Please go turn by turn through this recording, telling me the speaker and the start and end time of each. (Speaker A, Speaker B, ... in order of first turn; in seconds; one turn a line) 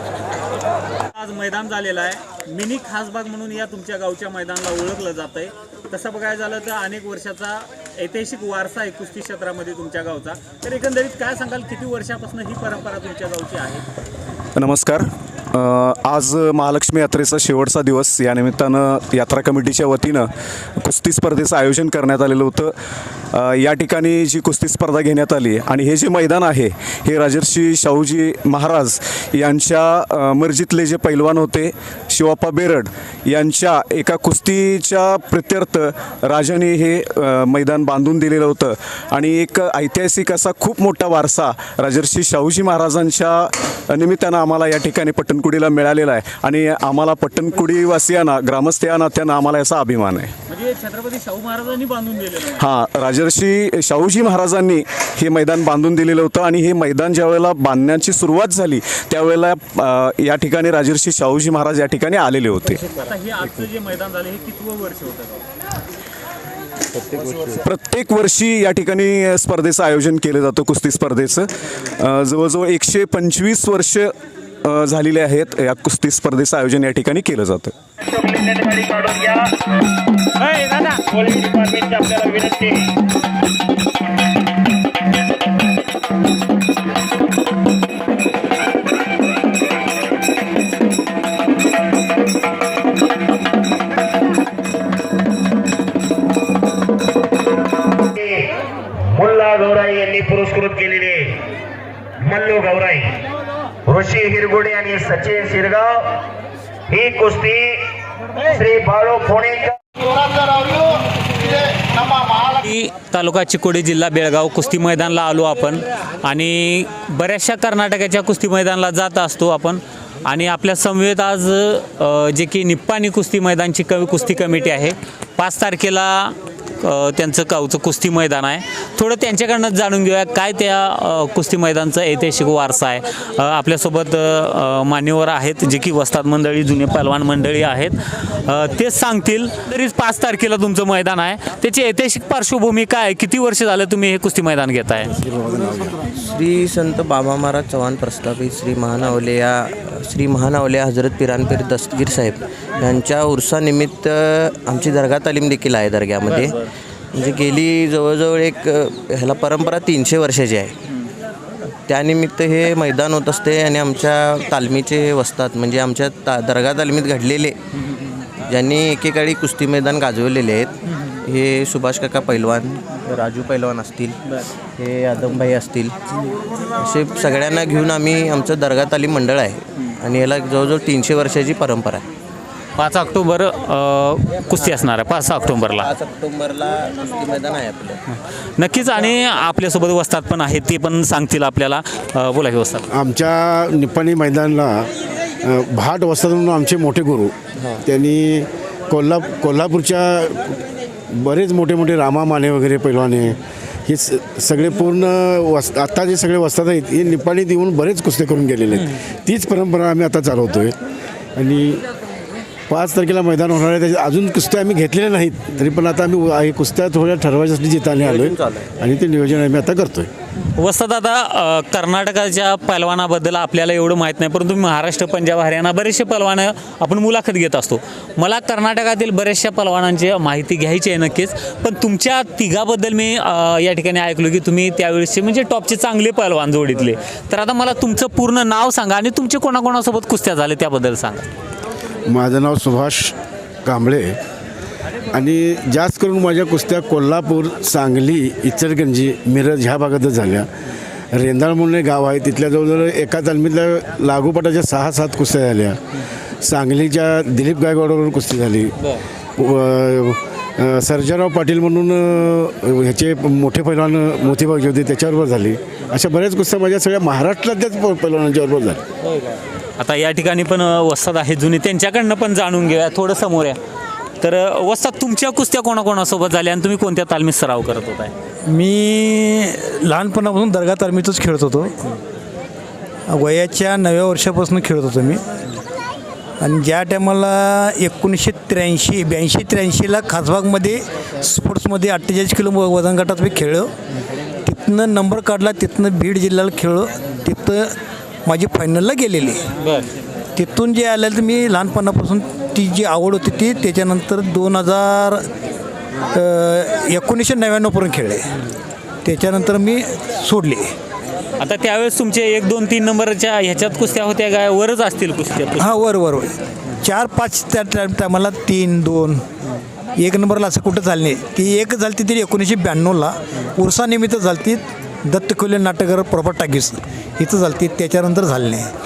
Speaker A: 1.1-13.9
Speaker B: 14.6-20.3
Speaker B: 20.8-22.7
Speaker B: 23.3-50.3
Speaker A: 50.5-52.6
Speaker B: 52.6-62.8
Speaker A: 63.0-65.4
Speaker C: 67.1-67.5
Speaker B: 67.5-74.1
Speaker B: 74.7-77.7
Speaker D: 78.1-79.4
Speaker A: 80.6-81.0
Speaker D: 81.1-82.9
Speaker D: 98.2-98.5
Speaker D: 99.1-101.4
Speaker D: 102.2-103.2
Speaker D: 103.9-105.9
Speaker D: 106.9-107.8
Speaker D: 108.5-109.8
Speaker A: 112.6-145.1
Speaker E: 145.2-145.9
Speaker C: 146.0-156.6
Speaker C: 157.1-160.8
Speaker C: 161.9-167.6
Speaker C: 168.4-174.2
Speaker C: 174.8-176.0
Speaker C: 176.8-182.1
Speaker A: 182.8-185.9
Speaker C: 185.8-188.0
Speaker A: 188.6-192.9
Speaker E: 192.9-194.9
Speaker E: 195.4-197.3
Speaker E: 197.9-200.6
Speaker E: 201.2-210.8
Speaker E: 211.4-211.8
Speaker E: 212.7-220.1
Speaker C: 218.0-218.7
Speaker A: 220.6-241.3
Speaker E: 242.1-244.2
Speaker E: 245.1-250.5
Speaker E: 251.1-255.8
Speaker E: 256.4-258.7
Speaker E: 259.4-268.8
Speaker A: 269.1-273.6
Speaker A: 274.2-278.1
Speaker F: 278.5-281.7
Speaker F: 283.1-285.2
Speaker F: 286.4-293.7
Speaker F: 294.4-297.7
Speaker F: 298.3-299.4
Speaker A: 299.6-299.9
Speaker F: 300.4-305.2
Speaker F: 306.1-308.4
Speaker F: 309.0-310.7
Speaker A: 311.4-315.7
Speaker F: 315.6-319.2
Speaker F: 320.0-328.7